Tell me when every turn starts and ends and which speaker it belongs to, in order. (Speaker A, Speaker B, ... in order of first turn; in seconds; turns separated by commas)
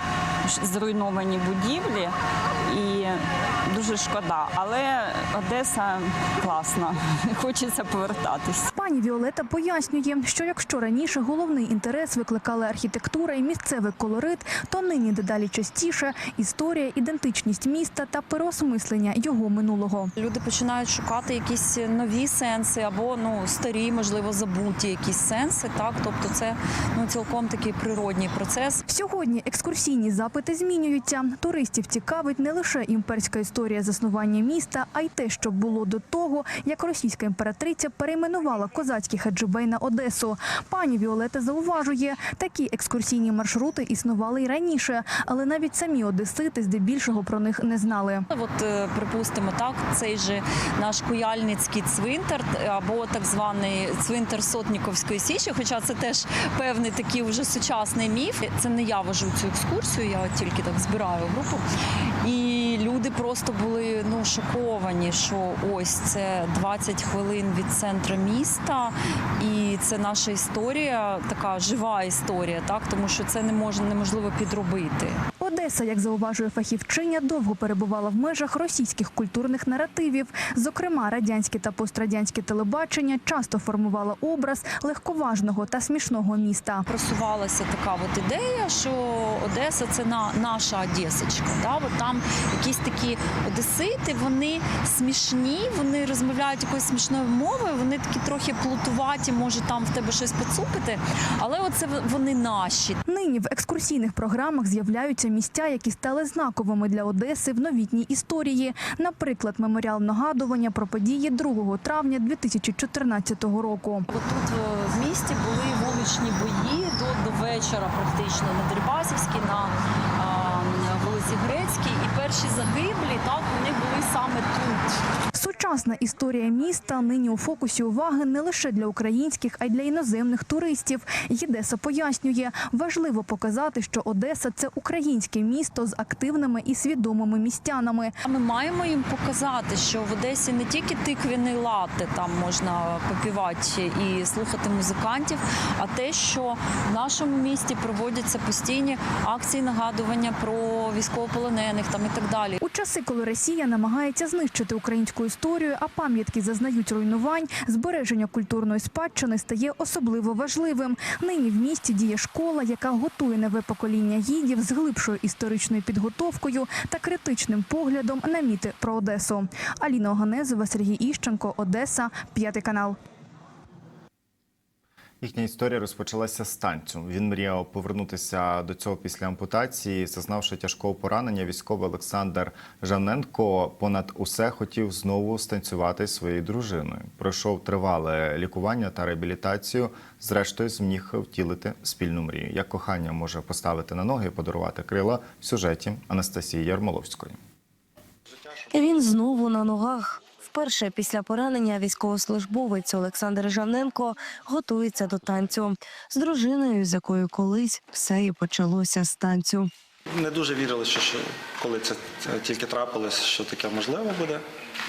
Speaker A: 0.5-2.1, Speaker A: 2.7-8.7, Speaker B: 8.8-20.1, Speaker C: 20.2-28.8, Speaker B: 28.9-48.2, Speaker C: 48.3-61.6, Speaker C: 62.2-75.2, Speaker B: 75.4-86.8, Speaker C: 86.9-103.0, Speaker B: 103.1-114.0, Speaker C: 114.1-124.9, Speaker B: 125.3-138.1, Speaker C: 138.2-152.6, Speaker B: 152.6-173.0, Speaker D: 175.2-197.4, Speaker E: 198.7-209.7, Speaker F: 210.1-214.4